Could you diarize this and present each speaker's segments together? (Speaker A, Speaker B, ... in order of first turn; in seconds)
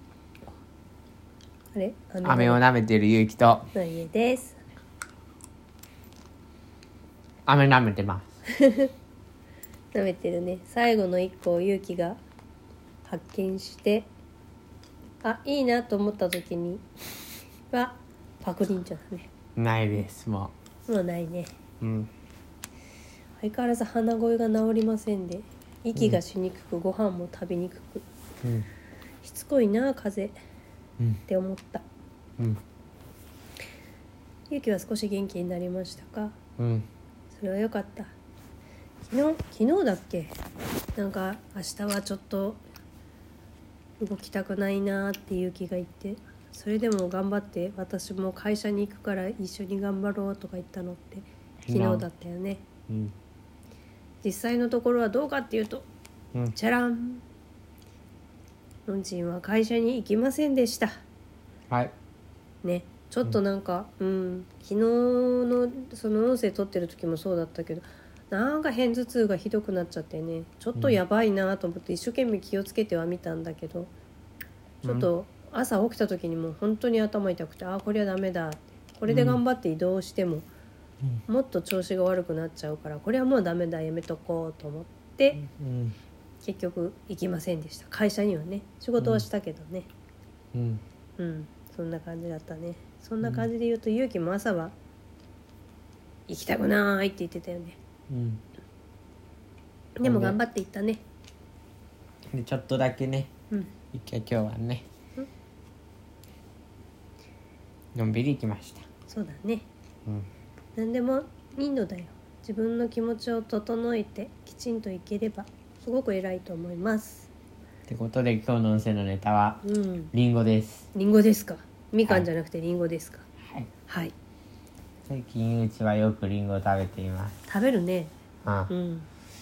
Speaker A: 1.7-2.6, 3.7-4.6, 8.6-8.9, 9.9-12.2, 13.0-14.1, 15.2-16.8, 17.7-19.3, 20.9-21.5, 23.4-28.1, 29.2-30.4, 31.3-31.8, 34.5-36.4, 37.3-38.1, 39.0-40.3, 41.0-42.6, 44.0-52.6, 54.2-55.9, 56.5-57.2, 58.9-60.9, 62.6-73.9, 74.8-80.5, 81.3-85.4, 86.4-89.9, 91.2-94.7, 96.3-97.8, 100.0-101.0, 109.1-109.7, 110.8-117.3, 119.6-120.1, 120.9-123.2, 123.9-124.1, 127.5-128.1, 128.7-129.1
Speaker B: 2.2-3.7, 7.5-8.3, 19.6-20.5, 21.8-22.1, 36.6-36.9, 51.6-52.0, 74.8-75.1, 79.1-79.4, 85.4-86.0, 89.0-89.2, 90.5-90.8, 98.1-98.4, 100.0-100.4, 102.3-103.3, 103.9-104.8, 107.9-108.8, 117.9-119.6, 120.1-120.9, 125.0-127.3, 128.4-128.7